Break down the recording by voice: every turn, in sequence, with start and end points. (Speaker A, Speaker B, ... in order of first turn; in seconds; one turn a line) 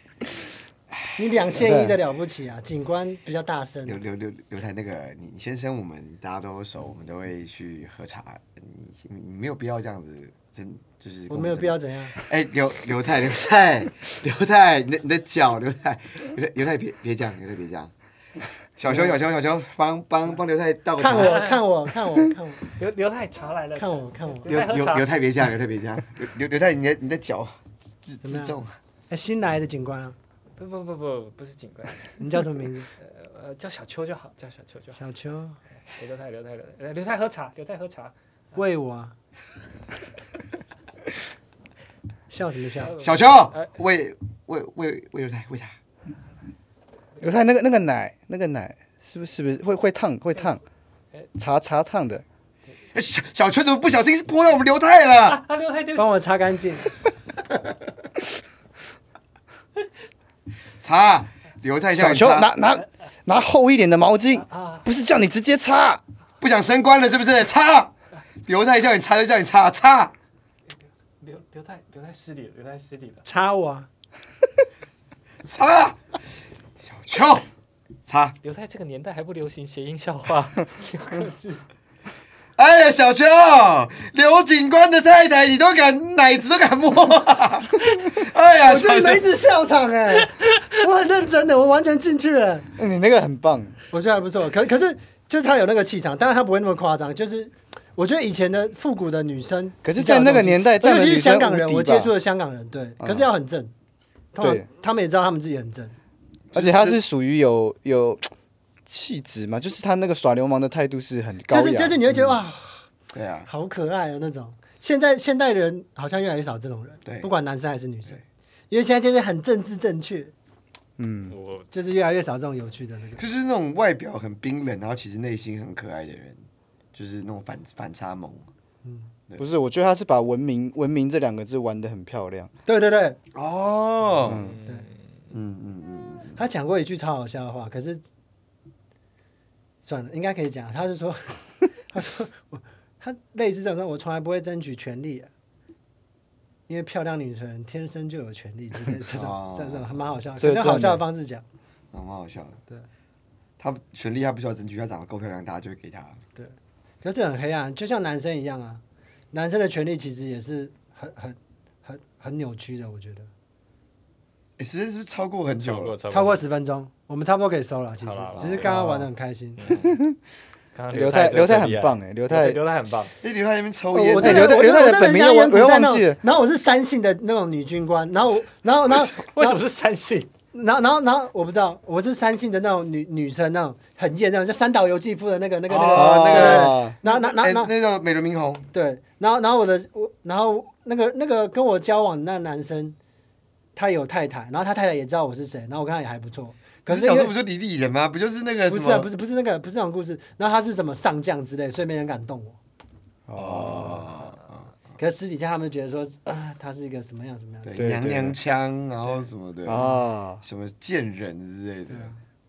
Speaker A: 0.9-1.6
Speaker B: 1.1-4.0
Speaker C: 1.6-1.9
Speaker A: 3.9-17.9
Speaker B: 11.3-12.2
Speaker A: 18.8-21.5
Speaker B: 18.9-19.1
Speaker B: 21.0-22.6
Speaker D: 21.1-21.6
Speaker D: 22.7-25.1
Speaker B: 23.8-24.5
Speaker A: 24.5-28.8
Speaker B: 28.2-28.6
Speaker B: 29.1-30.1
Speaker D: 30.6-32.1
Speaker B: 32.2-32.9
Speaker D: 33.0-35.0
Speaker B: 34.9-35.6
Speaker D: 35.9-38.1
Speaker B: 38.5-39.1
Speaker B: 42.3-43.0
Speaker D: 42.9-43.7
Speaker A: 43.0-45.7
Speaker C: 47.2-50.6
Speaker C: 51.4-52.2
Speaker A: 52.9-55.4
Speaker D: 55.3-56.1
Speaker B: 56.0-56.9
Speaker A: 60.8-62.5
Speaker C: 61.9-66.0
Speaker D: 64.5-64.8
Speaker A: 66.4-67.9
Speaker A: 68.5-70.1
Speaker D: 71.2-73.2
Speaker B: 73.2-73.9
Speaker A: 75.4-76.0
Speaker A: 76.8-77.5
Speaker A: 78.1-78.3
Speaker D: 78.4-81.6
Speaker A: 82.6-89.3
Speaker B: 88.6-92.7
Speaker C: 92.8-93.7
Speaker B: 93.9-103.7
Speaker C: 99.8-102.1
Speaker C: 103.0-103.3
Speaker B: 104.3-105.9
Speaker C: 104.4-104.7
Speaker A: 106.5-107.0
Speaker C: 106.5-108.3
Speaker C: 108.8-112.0
Speaker B: 111.5-112.9
Speaker A: 113.1-113.5
Speaker B: 113.5-120.3
Speaker C: 121.0-121.3
Speaker D: 121.3-121.7
Speaker B: 121.7-123.2
Speaker A: 123.2-126.4
Speaker A: 126.9-128.4
Speaker B: 128.8-129.1
Speaker C: 129.4-132.5
Speaker B: 132.7-133.2
Speaker A: 133.3-134.4
Speaker C: 134.2-134.6
Speaker D: 134.3-134.9
Speaker A: 135.3-136.4
Speaker B: 136.3-138.0
Speaker B: 139.8-145.3
Speaker B: 146.7-151.4
Speaker A: 149.0-149.9
Speaker C: 150.4-151.0
Speaker A: 151.9-152.6
Speaker A: 153.6-156.2
Speaker B: 156.3-163.3
Speaker A: 164.6-165.9
Speaker D: 165.6-166.4
Speaker B: 166.1-169.7
Speaker D: 168.0-168.7
Speaker A: 168.3-168.8
Speaker C: 168.6-169.1
Speaker D: 169.6-169.9
Speaker C: 169.8-170.2
Speaker D: 170.7-173.1
Speaker C: 170.9-172.6
Speaker A: 173.2-174.7
Speaker B: 173.9-179.6
Speaker C: 174.2-176.2
Speaker D: 178.9-180.3
Speaker B: 180.5-187.7
Speaker A: 185.7-188.7
Speaker C: 185.9-186.9
Speaker B: 188.7-192.9
Speaker B: 193.8-197.3
Speaker A: 196.9-199.1
Speaker B: 198.7-202.6
Speaker C: 203.3-204.1
Speaker A: 203.3-204.7
Speaker B: 205.0-207.7
Speaker A: 207.6-212.1
Speaker C: 207.7-208.4
Speaker C: 209.6-210.4
Speaker B: 211.9-212.2